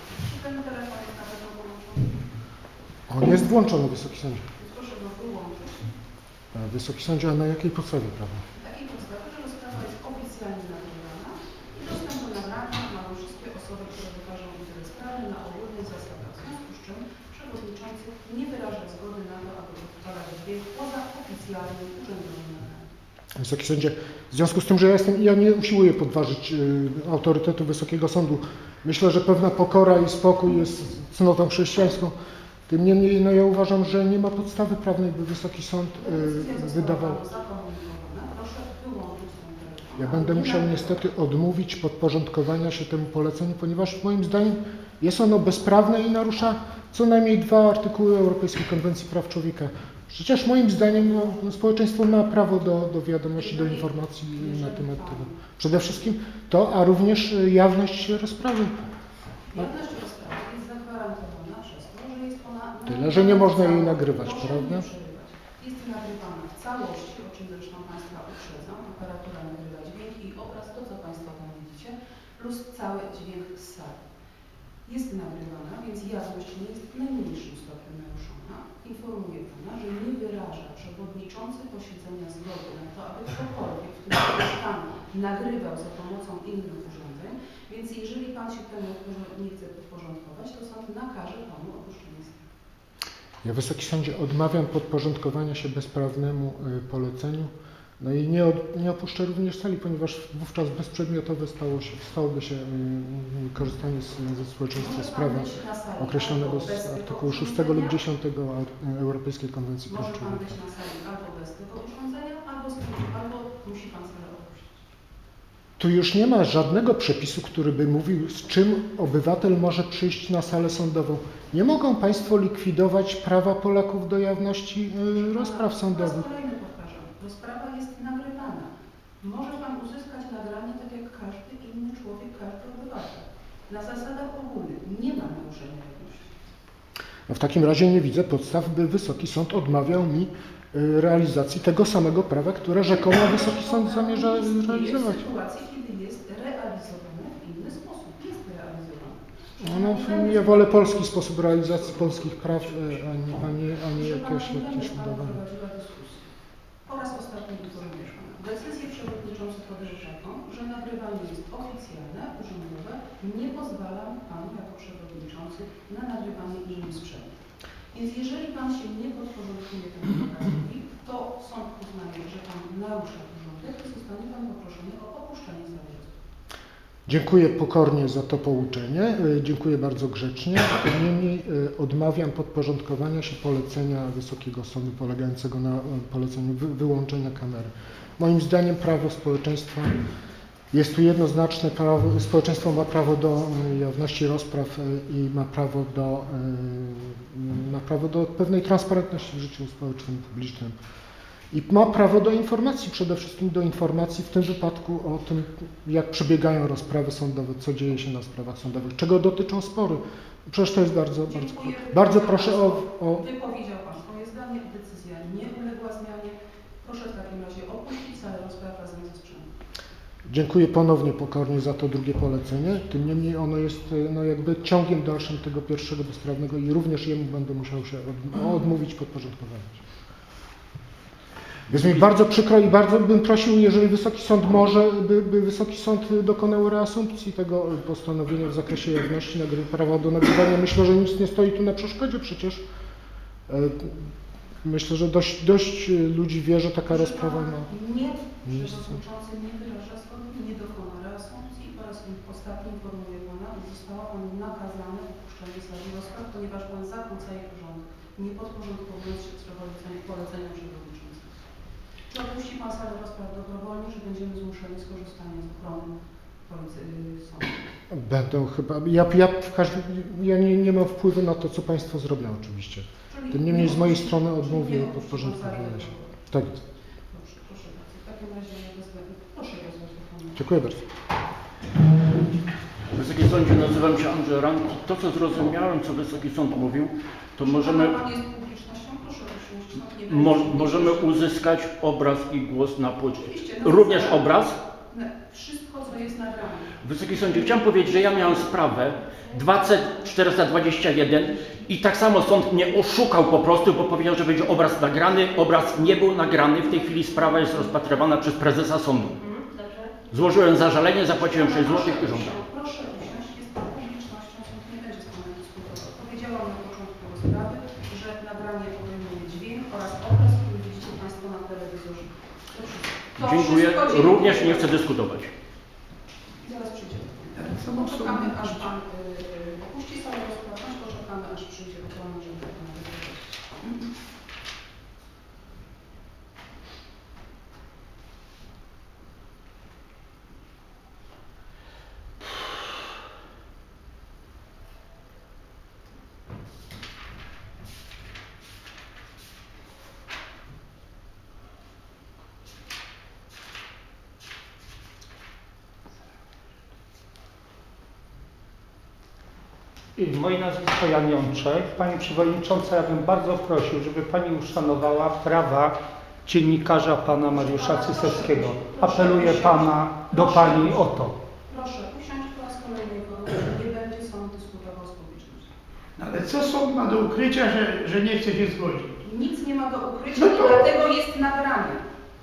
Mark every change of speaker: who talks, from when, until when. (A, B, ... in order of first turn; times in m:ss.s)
0:00.2-0:02.2 A
0:03.1-0:04.4 B
0:04.6-0:05.9 A
0:06.5-0:08.4 B
0:08.6-0:22.9 A
0:23.4-0:32.1 B
0:32.7-0:37.2 B
0:36.0-0:40.9 A
0:40.0-0:58.8 B
0:53.4-0:55.4 A
0:59.5-1:14.0 A
1:02.9-1:04.9 B
1:14.8-1:32.4 A
1:33.4-1:50.5 B
1:44.8-1:48.0 A
1:49.9-1:54.8 A
1:55.8-2:06.2 B
2:05.3-2:16.4 A
2:17.3-2:25.3 B
2:23.1-2:31.2 A
2:29.6-2:35.4 B
2:33.9-2:36.3 A
2:36.8-2:47.3 A
2:47.9-2:56.2 A
2:57.1-3:10.0 B
3:10.7-3:20.7 B
3:21.5-3:33.2 B
3:31.3-3:39.5 A
3:40.3-3:49.8 B
3:51.7-4:02.6 B
4:03.5-4:04.1 B
4:04.6-4:07.7 B
4:06.9-4:21.4 A
4:08.4-4:09.0 B
4:22.1-4:25.9 A
4:26.4-4:27.6 A
4:27.9-4:36.6 B
4:33.1-4:36.1 A
4:37.1-4:40.4 A
4:40.4-4:40.8 B
4:42.9-4:48.0 C
4:47.4-4:51.3 A
4:50.1-4:54.6 C
4:53.2-4:56.8 A
4:56.8-5:09.1 C
5:07.3-5:07.8 A
5:10.1-5:12.4 C
5:11.2-5:24.8 A
5:23.2-5:25.3 C
5:26.4-5:33.8 A
5:27.3-5:28.6 D
6:00.0-6:05.7 E
6:06.2-6:11.2 E
6:07.3-6:10.8 A
6:11.5-6:15.5 A
6:16.0-6:19.0 D
6:19.0-6:21.8 A
6:20.1-6:20.7 D